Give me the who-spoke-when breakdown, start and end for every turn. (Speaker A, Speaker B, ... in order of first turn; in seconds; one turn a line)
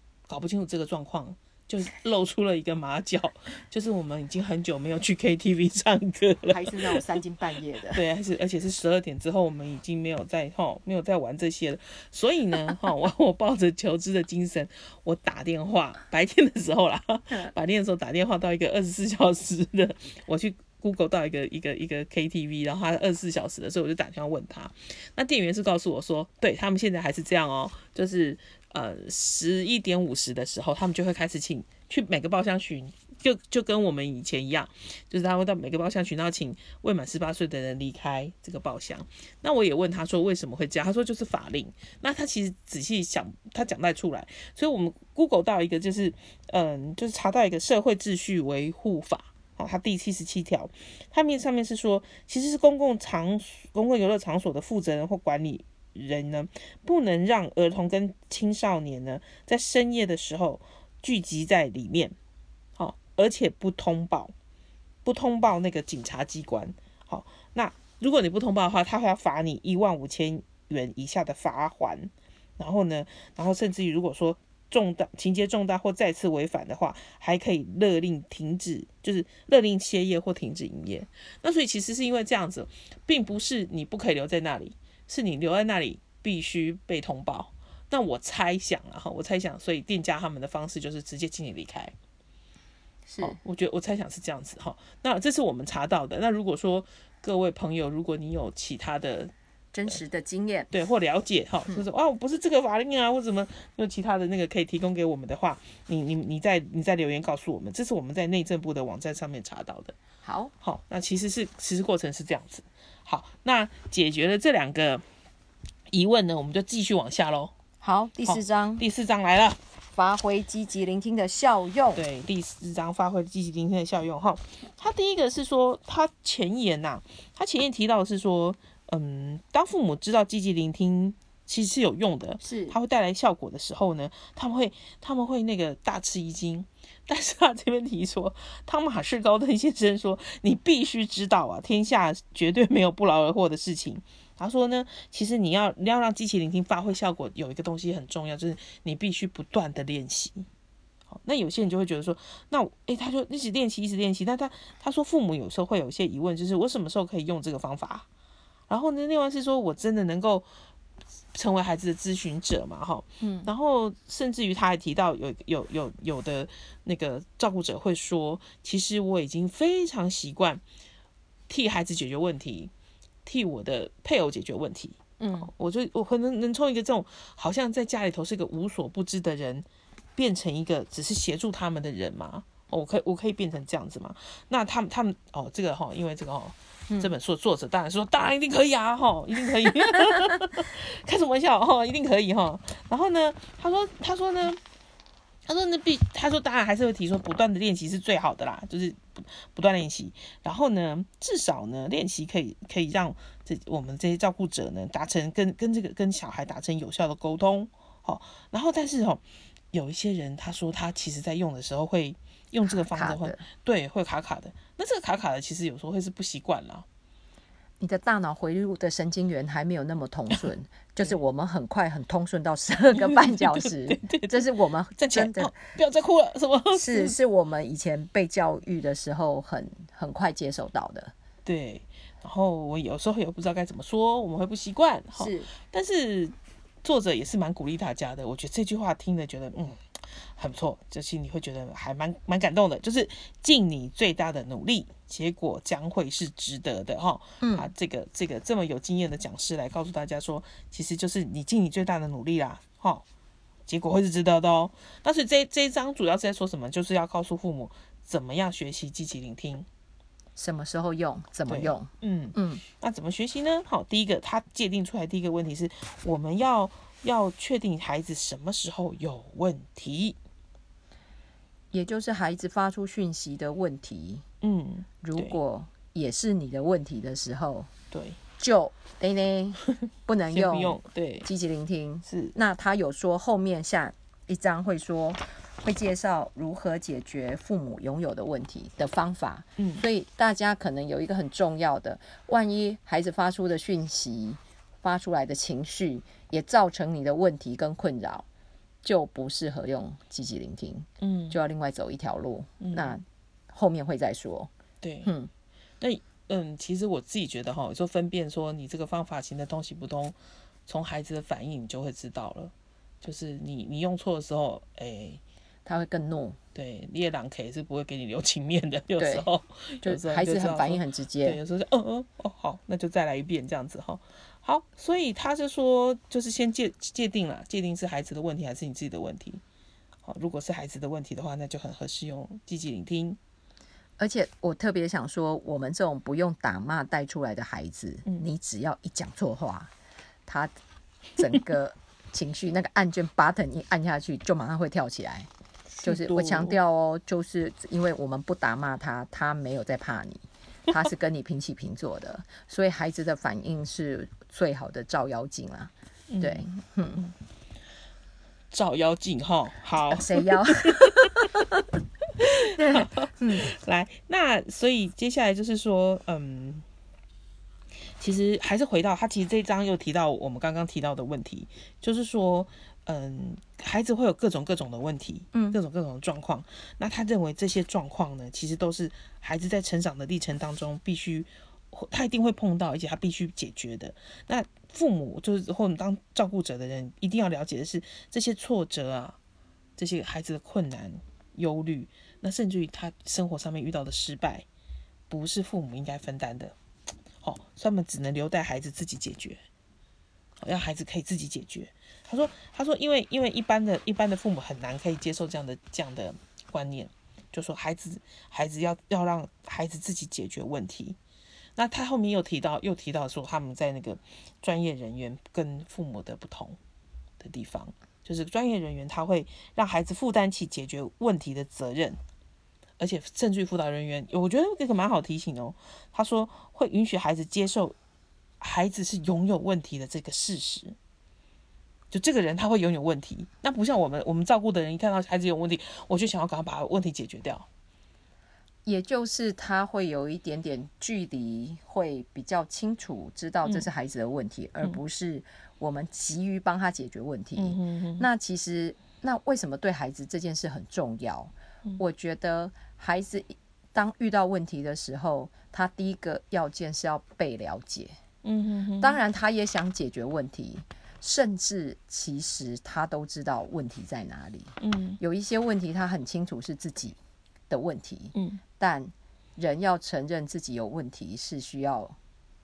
Speaker A: 0.3-7.0
Speaker B: 6.5-8.0
Speaker A: 7.9-62.1
Speaker A: 62.8-64.3
Speaker A: 65.0-91.9
Speaker B: 93.1-93.4
Speaker A: 93.2-99.3
Speaker B: 99.7-100.7
Speaker A: 100.7-110.0
Speaker B: 110.2-110.5
Speaker A: 110.6-115.0
Speaker A: 115.9-117.5
Speaker B: 117.8-118.8
Speaker A: 118.3-119.6
Speaker B: 120.0-122.0
Speaker A: 122.0-150.5
Speaker B: 132.4-132.8
Speaker A: 151.1-158.1
Speaker A: 158.7-160.5
Speaker A: 161.3-170.6
Speaker B: 163.2-163.5
Speaker A: 171.5-172.7
Speaker A: 173.2-179.7
Speaker A: 180.2-194.6
Speaker B: 190.0-190.3
Speaker A: 195.5-216.8
Speaker B: 212.7-213.4
Speaker B: 217.8-225.6
Speaker A: 222.9-227.2
Speaker B: 226.7-231.1
Speaker A: 231.4-253.1
Speaker B: 235.2-235.5
Speaker B: 247.4-247.7
Speaker A: 253.7-259.7
Speaker B: 260.4-262.6
Speaker A: 261.5-270.2
Speaker B: 271.7-274.2
Speaker A: 274.4-275.4
Speaker B: 275.0-277.7
Speaker A: 277.9-278.2
Speaker B: 278.4-298.3
Speaker A: 279.8-281.3
Speaker A: 282.1-282.4
Speaker A: 289.6-289.9
Speaker B: 298.8-304.5
Speaker A: 301.0-301.4
Speaker A: 302.6-303.0
Speaker A: 304.8-305.1
Speaker B: 305.1-305.3
Speaker A: 305.8-310.2
Speaker A: 310.7-315.2
Speaker B: 315.7-316.4
Speaker A: 316.5-329.4
Speaker B: 319.0-319.3
Speaker B: 319.8-321.4
Speaker A: 330.0-333.2
Speaker B: 334.0-339.7
Speaker B: 340.3-340.5
Speaker B: 341.2-345.3
Speaker A: 345.7-346.6
Speaker B: 345.8-357.0
Speaker A: 356.1-357.1
Speaker A: 358.5-361.3
Speaker B: 359.9-361.6
Speaker A: 362.2-366.6
Speaker B: 362.2-363.5
Speaker A: 368.0-389.2
Speaker B: 375.3-375.6
Speaker A: 389.8-394.5
Speaker A: 395.1-396.6
Speaker A: 397.2-399.4
Speaker A: 400.4-411.0
Speaker A: 411.6-416.6
Speaker A: 417.2-422.0
Speaker A: 422.8-427.8
Speaker A: 428.4-430.8
Speaker A: 431.9-437.5
Speaker B: 438.7-458.0
Speaker A: 447.4-448.1
Speaker A: 458.2-459.0
Speaker B: 458.8-467.0
Speaker A: 464.6-465.0
Speaker B: 467.5-472.0
Speaker A: 468.1-468.4